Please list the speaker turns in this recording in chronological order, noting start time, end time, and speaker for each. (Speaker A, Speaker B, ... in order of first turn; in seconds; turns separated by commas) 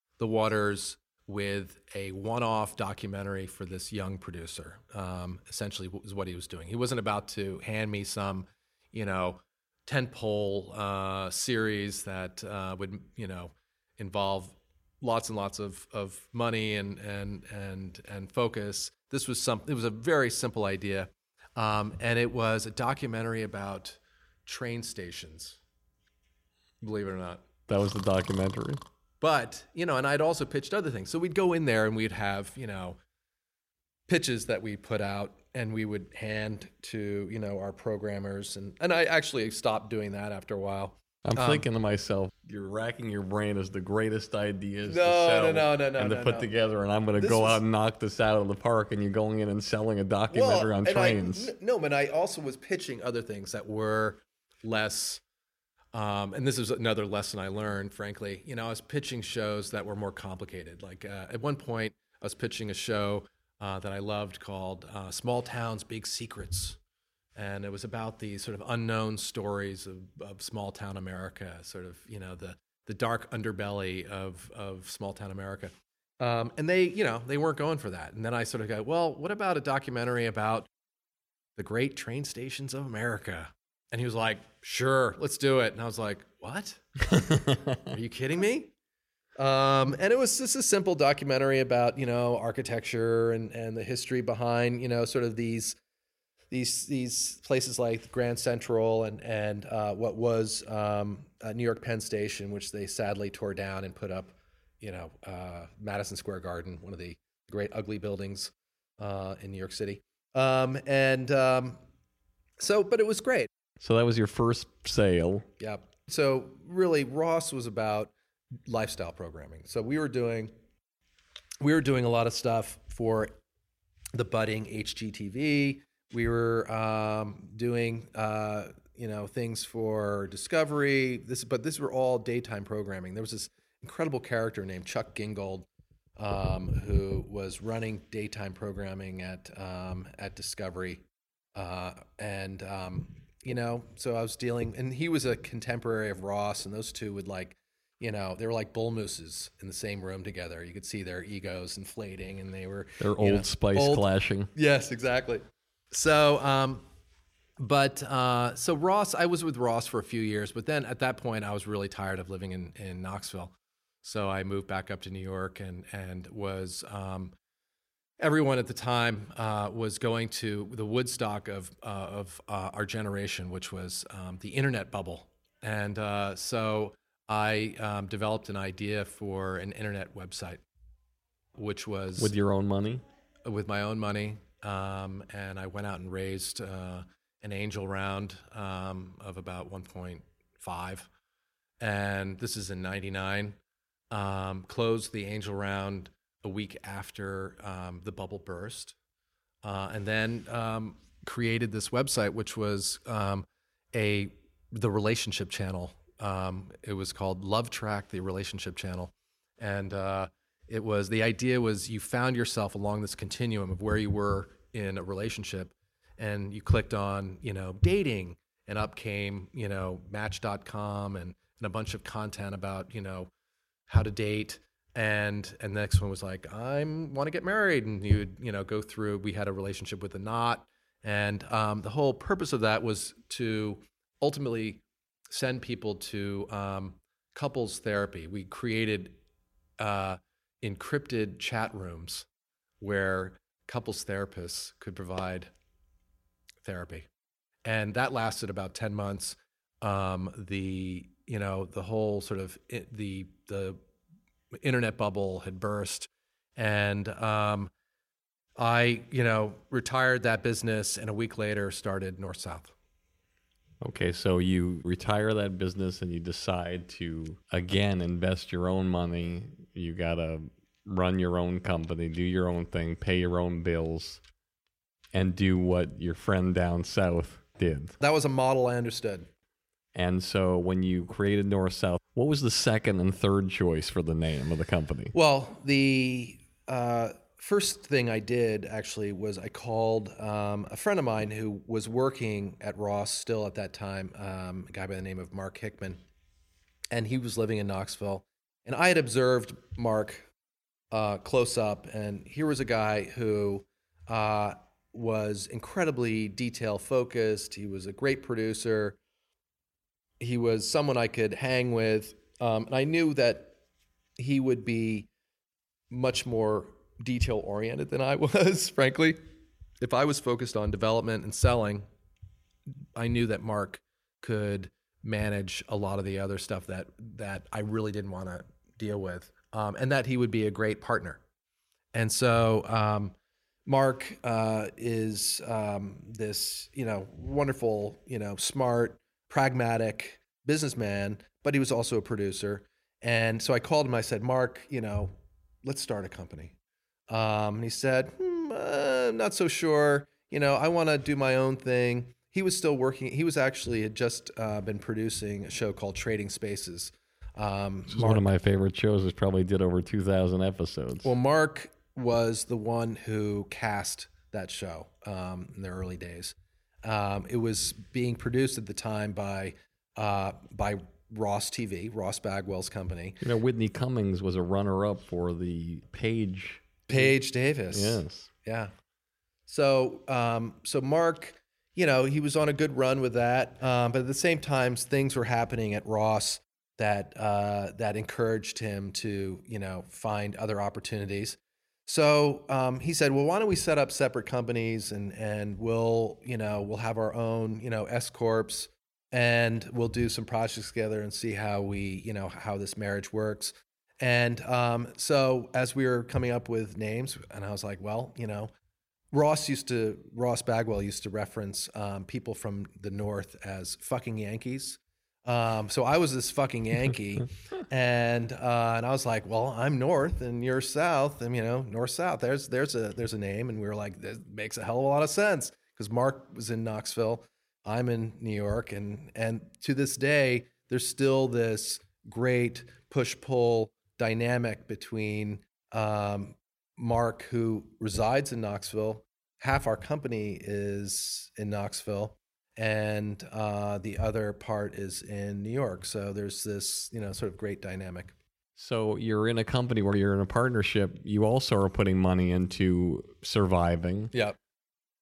Speaker A: 0.2-25.6, Speaker A: 26.8-27.4, Speaker B: 27.7-28.8, Speaker A: 29.2-33.0, Speaker A: 34.1-41.6, Speaker B: 41.2-51.5, Speaker A: 44.8-46.5, Speaker A: 47.1-47.6, Speaker A: 50.3-55.2, Speaker A: 55.9-66.8, Speaker A: 67.3-80.7, Speaker A: 81.6-86.8, Speaker B: 87.1-87.8, Speaker A: 87.8-88.7, Speaker A: 89.4-95.8, Speaker A: 96.5-111.8, Speaker A: 112.6-113.5, Speaker B: 113.8-115.5, Speaker A: 115.6-118.1, Speaker A: 118.7-120.5, Speaker A: 121.6-123.3, Speaker A: 124.1-135.7, Speaker A: 136.2-141.0, Speaker A: 141.5-156.8, Speaker B: 153.0-154.5, Speaker A: 157.6-167.3, Speaker A: 168.2-180.6, Speaker A: 181.5-182.3, Speaker B: 182.2-183.0, Speaker A: 183.4-191.1, Speaker A: 191.8-193.6, Speaker A: 194.1-198.9, Speaker A: 199.6-223.3, Speaker A: 223.9-239.2, Speaker A: 239.8-242.3, Speaker A: 242.8-245.5, Speaker A: 246.6-247.1, Speaker A: 247.6-253.8, Speaker A: 254.5-257.7, Speaker A: 258.6-262.7, Speaker B: 263.8-274.2, Speaker B: 275.1-277.9, Speaker A: 278.0-279.3, Speaker B: 279.9-285.1, Speaker A: 285.1-296.0, Speaker A: 296.9-300.3, Speaker A: 300.9-309.0, Speaker A: 310.2-313.6, Speaker A: 314.2-315.1, Speaker A: 315.9-319.2, Speaker A: 319.8-321.9, Speaker A: 322.9-331.2, Speaker A: 331.9-346.5, Speaker A: 347.1-358.2, Speaker B: 357.9-361.1, Speaker A: 361.0-373.2, Speaker B: 373.2-377.2, Speaker A: 376.9-378.7, Speaker B: 377.7-378.3, Speaker A: 379.5-408.5, Speaker A: 409.1-448.1, Speaker B: 448.6-454.1, Speaker A: 454.1-454.4